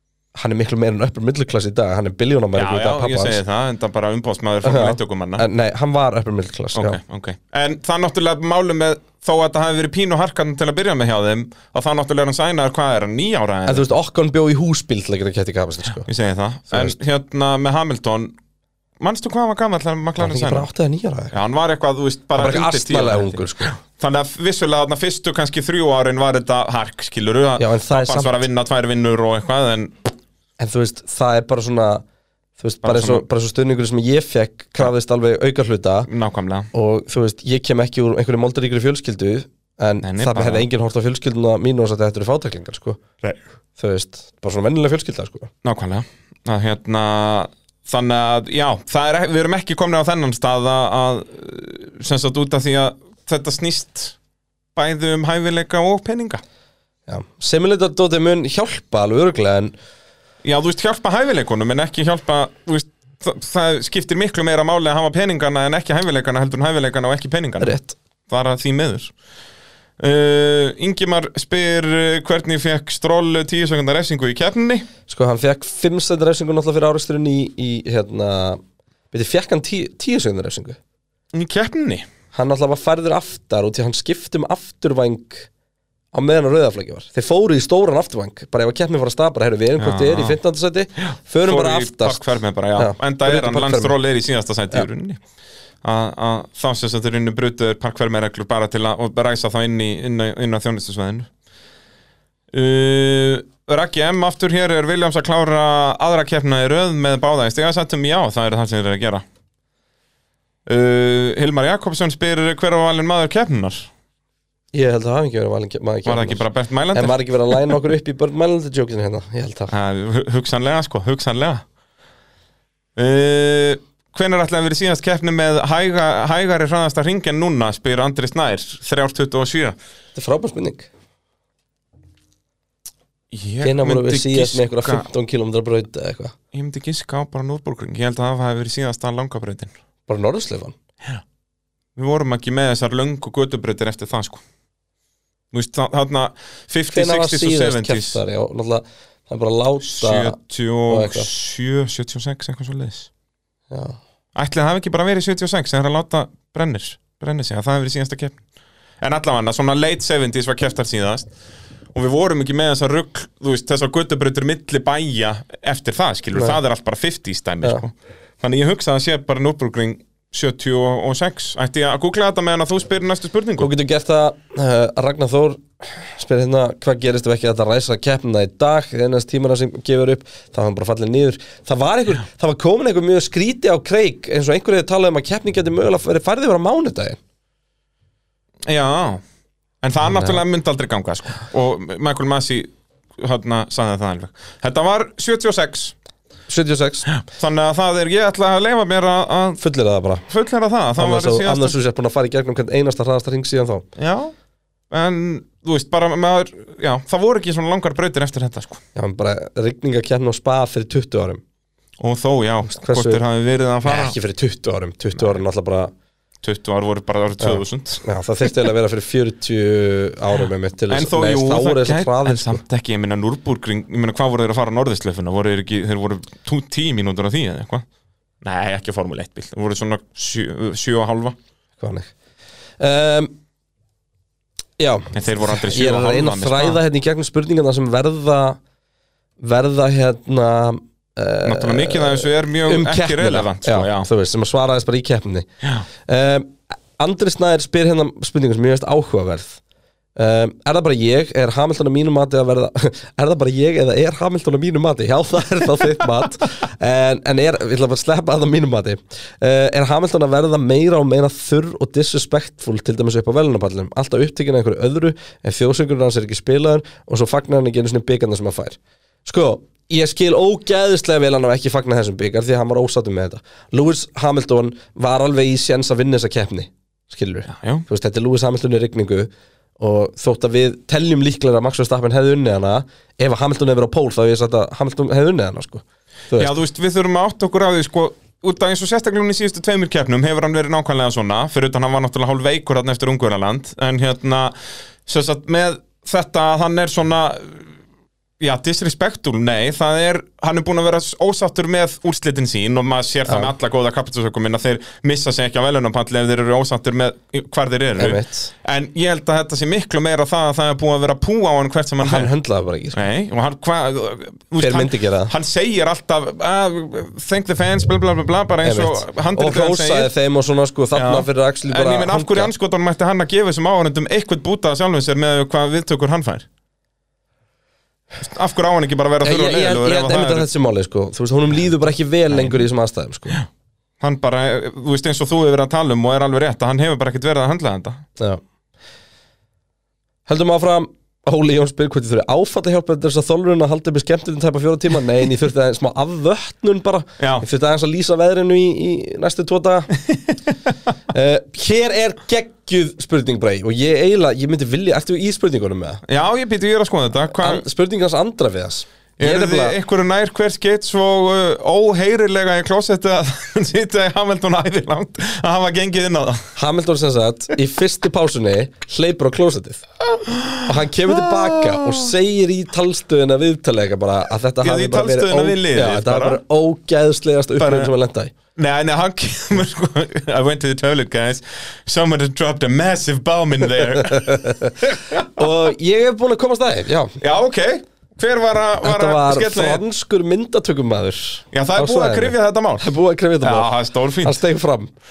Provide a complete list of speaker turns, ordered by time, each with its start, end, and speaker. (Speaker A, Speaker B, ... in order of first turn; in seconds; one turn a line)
Speaker A: 0.3-3.4
Speaker B: 2.5-5.4
Speaker A: 4.6-7.0
Speaker B: 6.7-13.9
Speaker A: 13.7-16.1
Speaker B: 16.1-18.3
Speaker B: 19.0-20.7
Speaker A: 20.2-21.3
Speaker B: 21.3-29.9
Speaker A: 22.4-23.7
Speaker A: 27.6-28.4
Speaker A: 30.6-32.0
Speaker A: 32.6-36.1
Speaker B: 32.8-33.2
Speaker B: 36.1-36.7
Speaker A: 36.7-43.0
Speaker B: 40.0-40.6
Speaker A: 43.8-45.5
Speaker B: 45.6-54.1
Speaker B: 54.7-56.4
Speaker A: 57.1-59.7
Speaker B: 60.4-67.8
Speaker A: 67.6-68.0
Speaker B: 68.3-69.1
Speaker B: 70.0-74.9
Speaker A: 75.1-78.6
Speaker A: 79.1-80.8
Speaker B: 81.3-82.0
Speaker A: 82.3-85.5
Speaker A: 86.1-92.2
Speaker B: 89.8-90.4
Speaker B: 91.4-95.2
Speaker A: 92.8-94.0
Speaker B: 95.8-101.3
Speaker B: 102.5-109.2
Speaker B: 110.7-113.9
Speaker A: 114.7-119.7
Speaker B: 116.0-117.5
Speaker B: 119.7-121.6
Speaker B: 123.0-129.8
Speaker A: 130.1-130.9
Speaker B: 133.3-135.0
Speaker A: 133.6-136.3
Speaker B: 136.5-139.7
Speaker A: 140.1-140.7
Speaker B: 141.9-144.4
Speaker B: 145.5-148.2
Speaker A: 146.9-150.4
Speaker B: 149.8-153.1
Speaker A: 150.9-151.3
Speaker A: 153.7-154.0
Speaker B: 154.3-158.4
Speaker B: 159.0-161.3
Speaker B: 161.9-173.7
Speaker A: 173.6-187.2
Speaker B: 188.7-189.2
Speaker B: 189.8-195.9
Speaker A: 190.1-190.4
Speaker A: 196.5-197.1
Speaker B: 197.1-199.6
Speaker A: 199.6-200.3
Speaker B: 200.3-201.8
Speaker A: 201.0-203.8
Speaker B: 204.0-204.3
Speaker B: 204.9-208.8
Speaker A: 208.9-211.4
Speaker B: 212.0-214.2
Speaker A: 212.7-213.2
Speaker A: 213.8-215.9
Speaker B: 216.4-218.0
Speaker A: 217.4-222.6
Speaker B: 220.9-227.8
Speaker B: 228.4-231.3
Speaker A: 231.8-232.1
Speaker A: 232.8-233.3
Speaker A: 234.8-238.6
Speaker B: 235.1-236.8
Speaker A: 239.4-245.5
Speaker B: 241.4-244.1
Speaker A: 246.1-249.6
Speaker A: 250.2-286.5
Speaker B: 277.5-277.8
Speaker B: 286.4-294.5
Speaker B: 295.1-297.7
Speaker B: 298.4-312.3
Speaker A: 308.0-308.5
Speaker A: 312.0-313.1
Speaker B: 312.9-320.1
Speaker A: 314.6-315.3
Speaker A: 318.6-322.5
Speaker B: 320.9-326.4
Speaker B: 328.2-330.5
Speaker A: 329.2-333.4
Speaker B: 332.3-332.6
Speaker B: 334.0-338.0
Speaker A: 340.3-349.9
Speaker B: 347.2-347.4
Speaker A: 351.1-356.0
Speaker B: 356.1-357.6
Speaker A: 357.3-359.8
Speaker B: 359.2-366.5
Speaker A: 366.6-369.8
Speaker B: 370.2-372.1
Speaker A: 370.6-378.3
Speaker B: 374.6-376.4
Speaker B: 377.6-377.9
Speaker B: 378.5-385.5
Speaker A: 384.0-387.1
Speaker B: 387.2-389.8
Speaker A: 388.8-394.9
Speaker B: 391.5-392.9
Speaker B: 393.4-394.4